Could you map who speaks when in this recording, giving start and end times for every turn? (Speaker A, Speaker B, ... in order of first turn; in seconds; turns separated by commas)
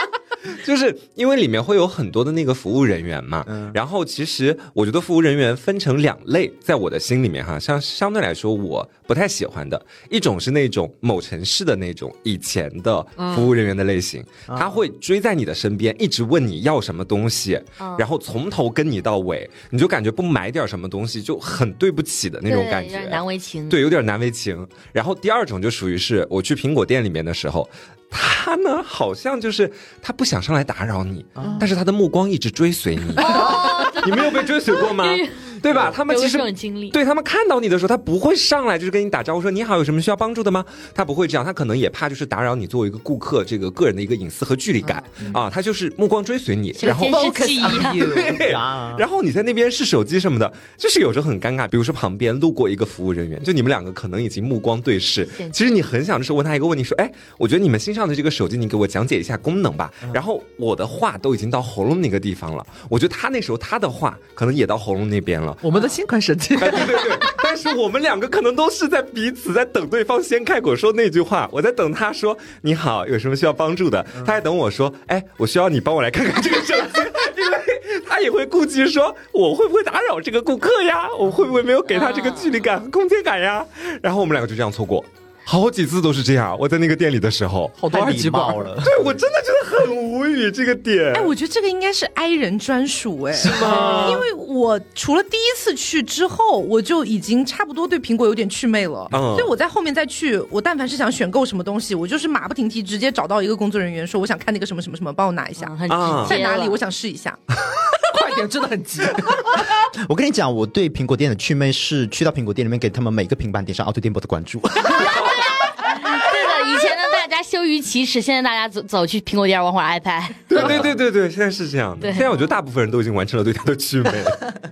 Speaker A: 0.5-65.9, Speaker B: 3.5-3.8, Speaker C: 13.2-13.5, Speaker B: 14.5-14.8, Speaker D: 17.8-18.0, Speaker D: 22.4-23.8, Speaker D: 33.1-37.0, Speaker C: 44.8-45.3, Speaker D: 46.8-48.2, Speaker C: 46.8-48.4, Speaker B: 48.3-49.0, Speaker C: 65.6-67.3, Speaker A: 66.6-87.8, Speaker D: 81.9-82.5, Speaker C: 87.8-88.7, Speaker B: 87.9-89.2, Speaker A: 88.8-91.3, Speaker E: 91.1-107.4, Speaker A: 93.4-94.2, Speaker B: 93.6-94.1, Speaker C: 93.6-94.1, Speaker A: 99.1-99.5, Speaker D: 105.6-106.8, Speaker A: 105.9-106.4, Speaker C: 108.1-109.6, Speaker B: 110.0-115.4, Speaker D: 115.0-120.8, Speaker A: 120.5-124.5, Speaker B: 120.6-120.9, Speaker D: 122.0-122.4